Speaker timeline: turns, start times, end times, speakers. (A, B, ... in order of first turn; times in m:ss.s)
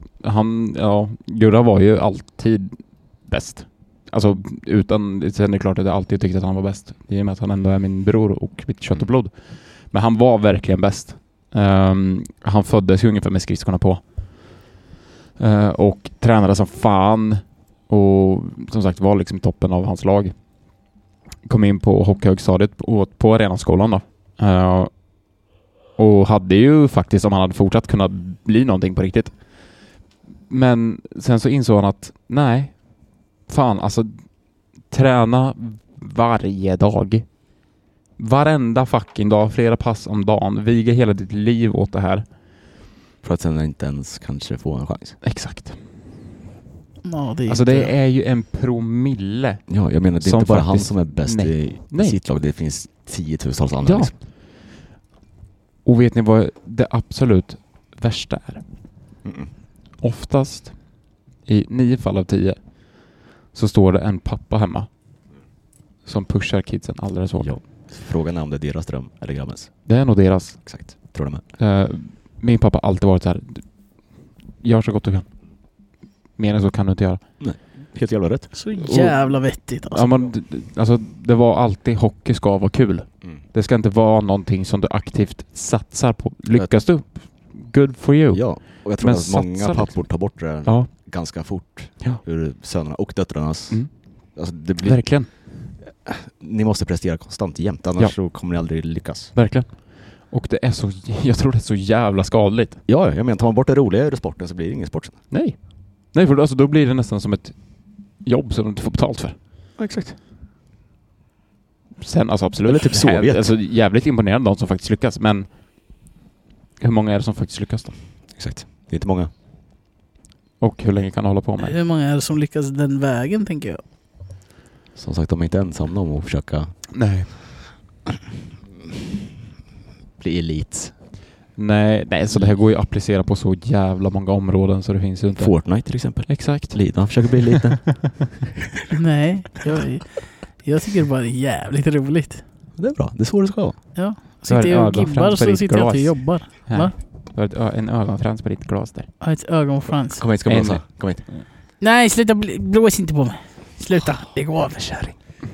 0:00.2-0:14.6 A
0:15.4-0:20.4 A
0:21.4-0:25.2 A
0:26.0-0:29.8 A
0:30.5-0:34.3 A
0:34.8-0:37.4 A
0:38.2-0:42.3 A
0:43.2-0:45.2 B
0:45.2-0:45.8 A
0:47.0-0:47.9 C
0:47.5-0:52.2 A
0:49.7-0:54.1 B
0:53.8-0:54.1 A
0:55.8-0:58.6 A
0:59.2-0:59.5 B
1:00.0-1:04.9 A
1:06.0-1:07.6 A
1:07.4-1:09.9 B
1:09.9-1:15.3 A
1:10.6-1:11.4 B
1:16.4-1:17.2 A
1:17.4-1:18.5 B
1:18.5-1:20.0 C
1:18.8-1:30.9 A
1:28.3-1:39.3 B
1:33.7-1:35.3 A
1:39.3-1:42.8 A
1:42.9-1:45.2 B
1:45.3-1:49.4 A
1:49.8-1:50.1 B
1:52.0-1:55.5 A
1:52.6-1:53.4 B
1:56.8-1:57.9 A
1:58.3-1:59.3 B
2:00.6-2:01.8 A
2:01.6-2:03.8 C
2:05.0-2:06.9 B
2:06.9-2:07.6 A
2:10.2-2:10.9 B
2:11.6-2:18.0 A
2:15.4-2:18.5 B
2:18.9-2:22.4 C
2:22.8-2:23.8 B
2:23.9-2:26.9 C
2:24.4-2:29.1 A
2:29.2-2:30.2 C
2:30.2-2:31.2 B
2:30.4-2:31.4 A
2:31.8-2:34.8 C
2:34.7-2:35.1 B